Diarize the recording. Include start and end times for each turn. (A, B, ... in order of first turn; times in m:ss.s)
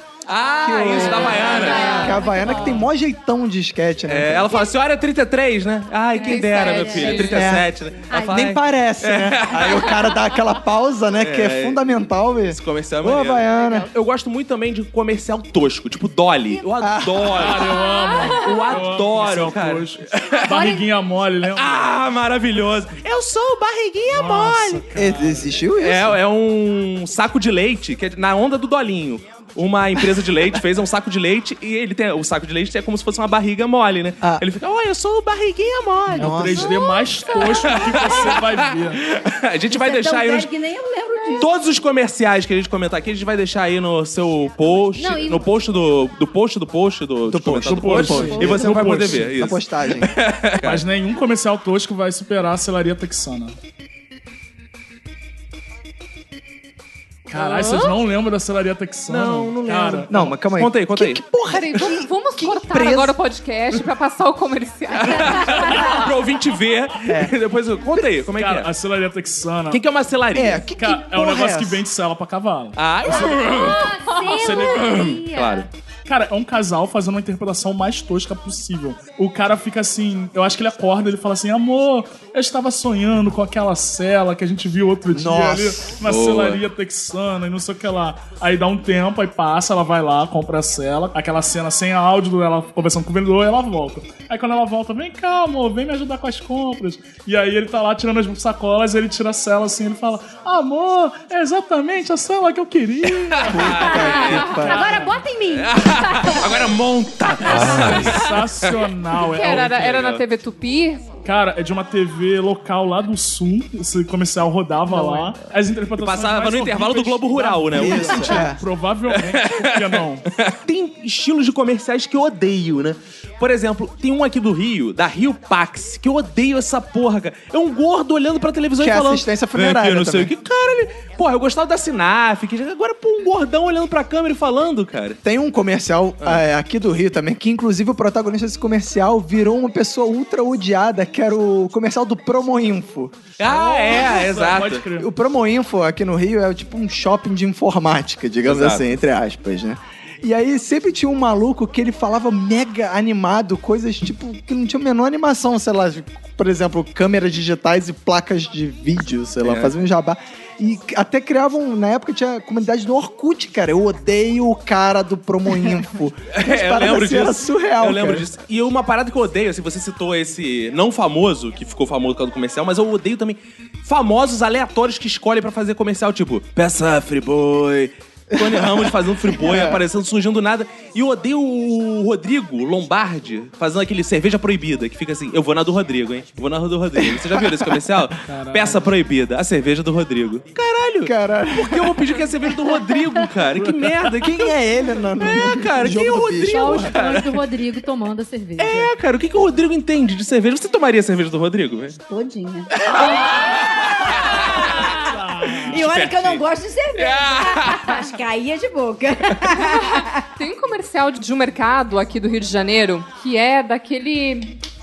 0:00.3-0:02.6 A
0:00.6-0:04.6 B
0:01.1-0:02.7 C
0:01.2-0:02.9 D
0:04.1-0:10.0 A
0:06.2-0:07.5 C
0:06.2-0:07.3 D
0:07.3-0:13.9 B
0:08.1-0:08.4 D
0:11.2-0:11.8 A
0:12.5-0:20.6 A
0:16.8-0:17.4 B
0:17.3-0:21.9 E
0:17.9-0:18.3 C
0:21.5-0:24.9 A
0:24.1-0:25.6 E
0:25.0-0:26.2 B
0:25.8-0:36.7 A
0:36.1-0:36.8 B
0:36.1-0:39.0 E
0:37.3-0:40.5 A
0:39.7-0:41.5 F
0:41.4-0:50.8 A
0:45.0-0:45.5 D
0:47.3-0:50.1 B
0:47.6-0:49.3 E
0:50.6-0:53.6 E
0:57.3-1:00.2 E
0:57.4-0:57.8 A
0:59.1-1:01.2 A
1:00.1-1:03.2 B
1:01.5-1:06.1 C
1:05.0-1:08.7 A
1:07.1-1:07.3 B
1:08.4-1:09.8 E
1:09.7-1:10.6 A
1:10.3-1:11.8 B
1:10.7-1:12.8 E
1:12.8-1:15.7 A
1:13.0-1:15.7 D
1:14.0-1:14.6 C
1:14.4-1:14.9 E
1:16.1-1:43.9 E
1:25.1-1:26.0 B
1:26.0-1:26.6 A
1:43.3-1:44.4 A
1:43.5-1:44.8 B
1:43.8-1:46.6 D
1:44.0-1:44.9 C
1:44.5-1:45.0 E
1:45.5-1:48.8 A
1:47.4-1:48.5 C
1:48.1-1:49.9 E
1:49.3-1:51.2 C
1:49.4-1:50.2 A
1:51.2-2:00.3 E
1:56.0-1:58.5 A
1:57.7-1:58.6 B
1:59.1-2:15.2 A
2:08.8-2:10.3 B
2:15.2-2:23.2 B
2:23.4-2:24.8 A
2:23.5-2:25.1 E
2:25.0-2:48.3 B
2:28.4-2:29.0 A
2:39.4-2:39.7 A
2:46.3-3:14.5 A
2:58.3-2:59.8 B
3:07.0-3:08.0 B
3:08.3-3:08.8 E
3:11.0-3:12.0 B
3:13.8-3:14.0 E
3:14.2-3:16.9 B
3:15.2-3:17.4 A
3:16.4-3:18.9 D
3:18.6-3:22.0 A
3:22.1-3:30.2 F
3:22.8-3:25.0 A
3:24.9-3:25.8 E
3:25.6-3:28.1 A
3:29.6-3:34.6 C